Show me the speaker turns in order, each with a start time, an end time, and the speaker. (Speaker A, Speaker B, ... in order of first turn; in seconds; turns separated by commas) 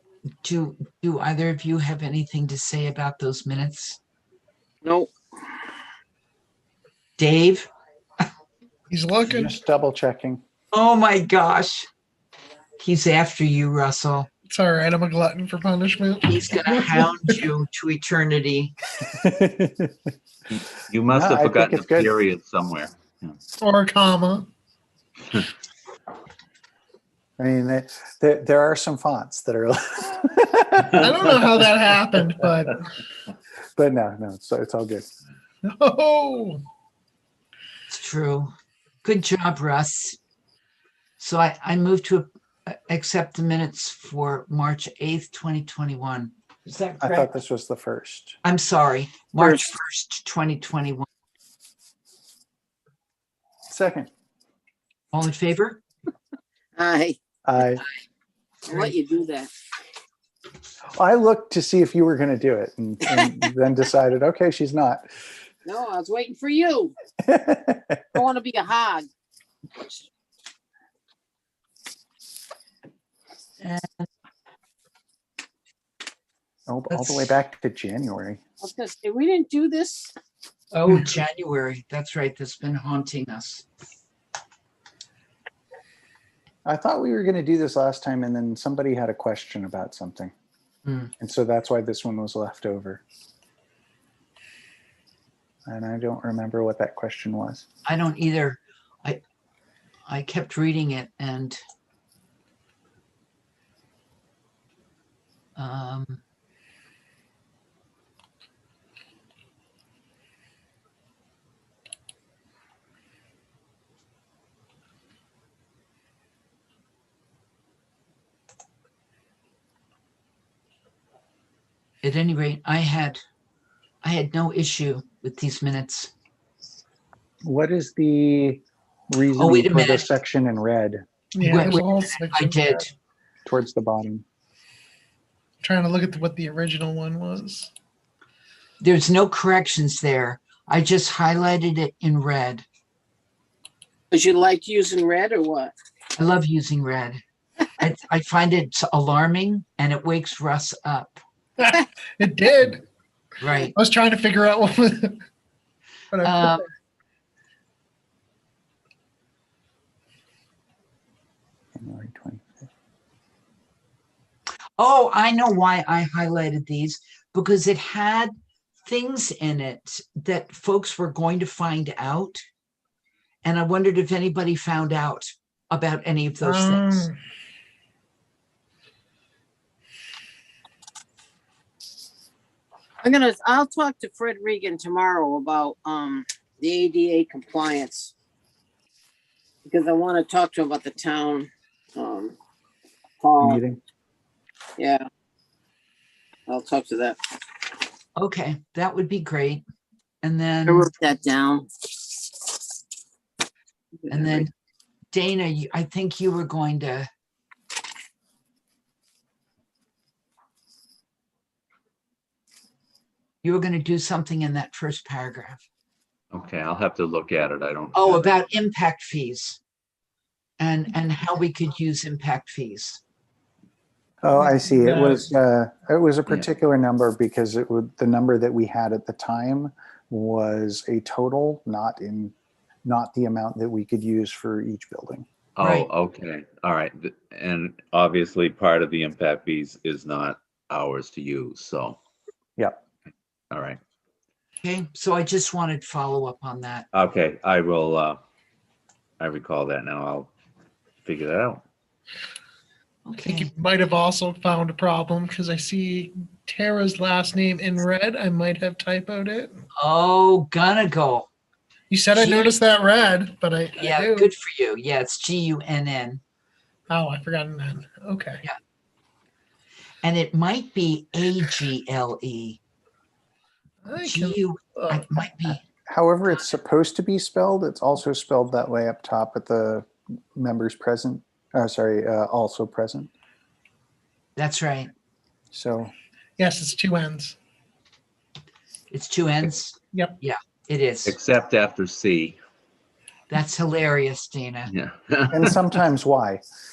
Speaker A: 0.4-4.0, Speaker B: 4.8-5.1, Speaker A: 7.2-7.7, Speaker C: 8.9-9.6, Speaker D: 9.2-10.4, Speaker A: 10.7-11.9, Speaker A: 12.8-14.3, Speaker C: 14.5-17.5, Speaker A: 16.2-18.7, Speaker D: 19.1-19.9, Speaker E: 20.5-23.4, Speaker D: 21.1-22.1, Speaker C: 23.6-24.5, Speaker D: 27.4-31.0, Speaker C: 31.0-32.8, Speaker D: 33.8-35.0, Speaker C: 35.6-36.6, Speaker A: 37.9-38.5, Speaker A: 39.0-40.2, Speaker A: 41.2-47.3, Speaker D: 47.0-48.4, Speaker A: 48.4-51.1, Speaker B: 49.4-49.6, Speaker D: 53.7-54.1, Speaker A: 55.1-55.8, Speaker B: 56.8-57.2, Speaker D: 57.4-57.8, Speaker B: 58.7-59.5, Speaker D: 61.0-65.0, Speaker B: 65.6-66.9, Speaker D: 67.2-68.0, Speaker B: 68.1-69.1, Speaker A: 73.6-74.1, Speaker D: 76.7-78.4, Speaker A: 76.9-77.3, Speaker B: 78.6-80.1, Speaker A: 80.7-83.7, Speaker D: 86.6-90.3, Speaker A: 90.8-91.1, Speaker D: 91.2-93.0, Speaker D: 95.7-97.7, Speaker A: 97.8-99.2, Speaker A: 100.1-101.6, Speaker A: 105.5-106.2, Speaker A: 122.0-123.2, Speaker A: 124.0-126.1, Speaker D: 127.4-131.0, Speaker A: 129.3-130.1, Speaker C: 131.3-132.8, Speaker A: 131.4-132.9, Speaker D: 133.4-134.2, Speaker C: 135.6-137.7, Speaker A: 138.8-142.6, Speaker B: 144.1-145.7, Speaker A: 146.2-147.2, Speaker A: 147.8-151.2, Speaker C: 151.6-152.8, Speaker A: 153.4-153.7, Speaker C: 153.7-155.2, Speaker C: 156.1-156.6, Speaker A: 156.2-156.7, Speaker D: 161.8-162.6, Speaker A: 164.8-168.3, Speaker A: 168.8-172.4, Speaker A: 173.4-177.1, Speaker C: 176.4-177.2, Speaker B: 183.0-188.1, Speaker B: 189.7-192.4, Speaker B: 193.2-193.6, Speaker D: 193.4-193.8, Speaker B: 194.8-195.0, Speaker B: 196.5-197.2, Speaker A: 198.2-199.6, Speaker A: 200.2-200.9, Speaker B: 200.7-201.7, Speaker A: 204.1-204.5, Speaker B: 204.1-204.4, Speaker A: 205.1-207.1, Speaker A: 213.4-215.6, Speaker E: 216.3-218.3, Speaker A: 217.9-219.6, Speaker A: 220.6-223.0, Speaker D: 224.2-232.3, Speaker C: 224.3-225.3, Speaker D: 232.8-235.2, Speaker E: 235.6-242.0, Speaker A: 235.6-235.9, Speaker E: 243.5-243.8, Speaker A: 244.6-246.9, Speaker E: 246.9-248.2, Speaker E: 249.2-250.3, Speaker E: 251.0-251.6, Speaker A: 253.1-253.5, Speaker C: 253.2-259.6, Speaker A: 259.8-261.3, Speaker C: 261.9-264.3, Speaker A: 262.1-262.5, Speaker A: 263.8-266.2, Speaker C: 266.9-268.4, Speaker A: 270.0-272.6, Speaker C: 273.8-275.2, Speaker A: 274.0-275.6, Speaker D: 275.9-283.1, Speaker A: 284.4-284.9, Speaker D: 285.5-285.9, Speaker C: 286.4-287.4, Speaker A: 288.9-291.1, Speaker C: 289.9-290.2, Speaker E: 291.1-292.4, Speaker A: 293.3-294.7, Speaker E: 294.7-295.6, Speaker D: 295.3-296.4